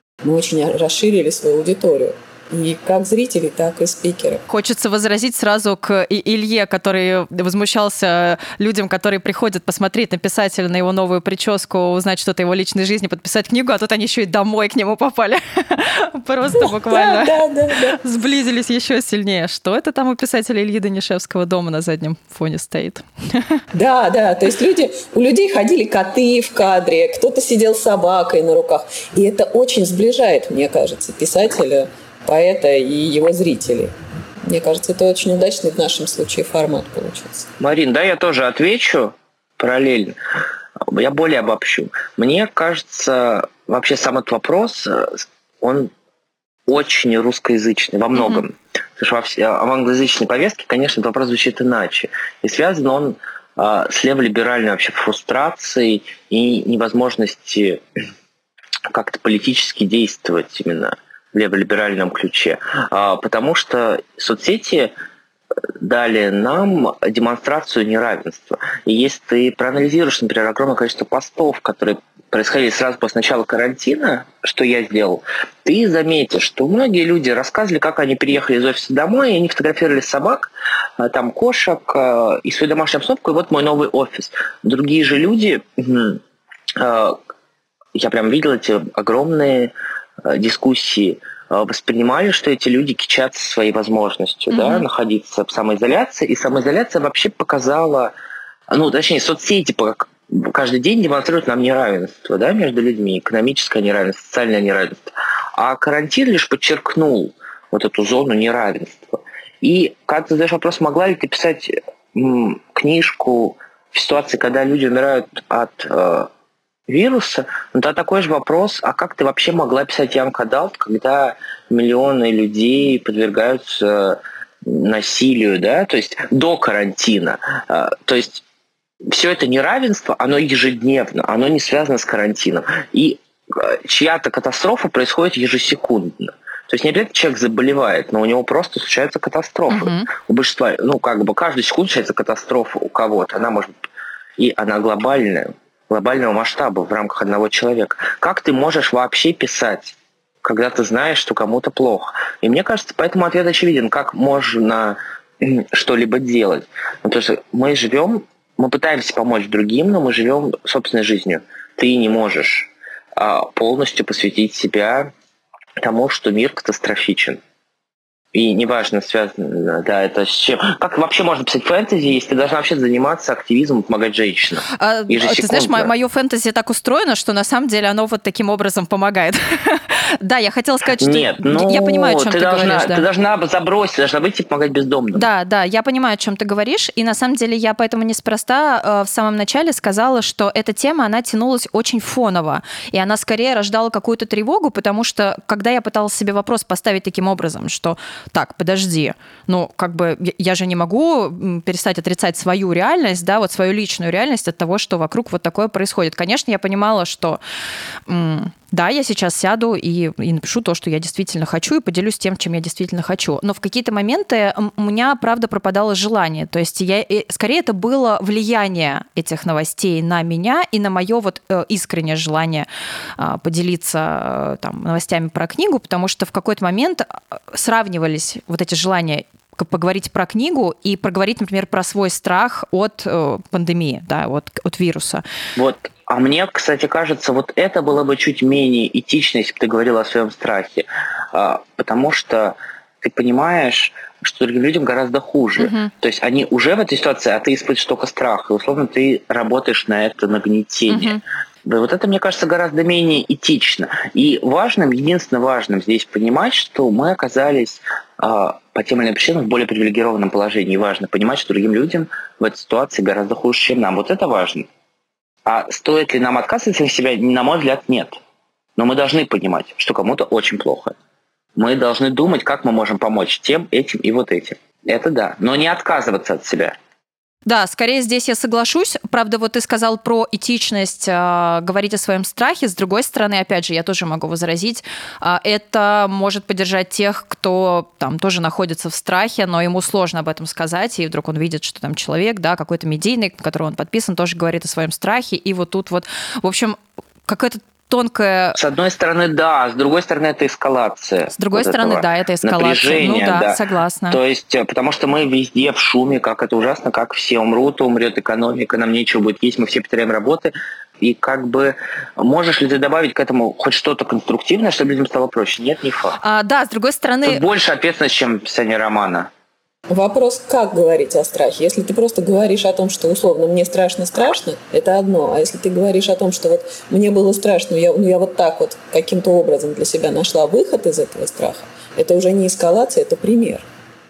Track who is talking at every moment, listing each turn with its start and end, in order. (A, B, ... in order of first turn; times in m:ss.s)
0:00.2-0:04.4 A
0:04.5-0:17.4 B
0:16.5-0:18.0 A
0:18.0-0:23.6 B
0:23.7-0:33.9 A
0:34.5-0:37.5 A
0:37.6-0:40.2 C
0:40.8-0:45.9 C
0:46.7-0:57.8 C
0:48.2-0:48.4 B
0:58.9-1:04.9 C
1:05.8-1:26.2 C
1:26.8-1:27.2 C
1:28.0-1:29.7 C
1:30.2-1:38.1 C
1:34.5-1:34.8 B
1:38.7-1:56.3 C
1:56.9-2:08.4 C
2:09.1-2:23.7 C
2:19.7-2:20.1 B
2:24.4-2:45.1 C
2:45.8-2:47.4 C
2:48.3-2:55.9 C
2:54.7-3:03.1 B
3:01.0-3:05.3 C
3:05.1-3:27.4 B
3:28.1-3:42.7 B
3:43.2-3:55.2 B
3:55.6-4:24.7 C
4:05.6-4:05.9 B
4:10.9-4:11.2 B
4:25.5-4:28.2 C
4:28.8-4:31.0 C
4:31.6-4:36.8 C
4:37.5-4:58.6 B
4:58.6-5:16.2 C
5:01.4-5:04.2 B
5:16.2-5:17.4 B
5:17.2-5:19.3 C
5:19.9-5:33.6 A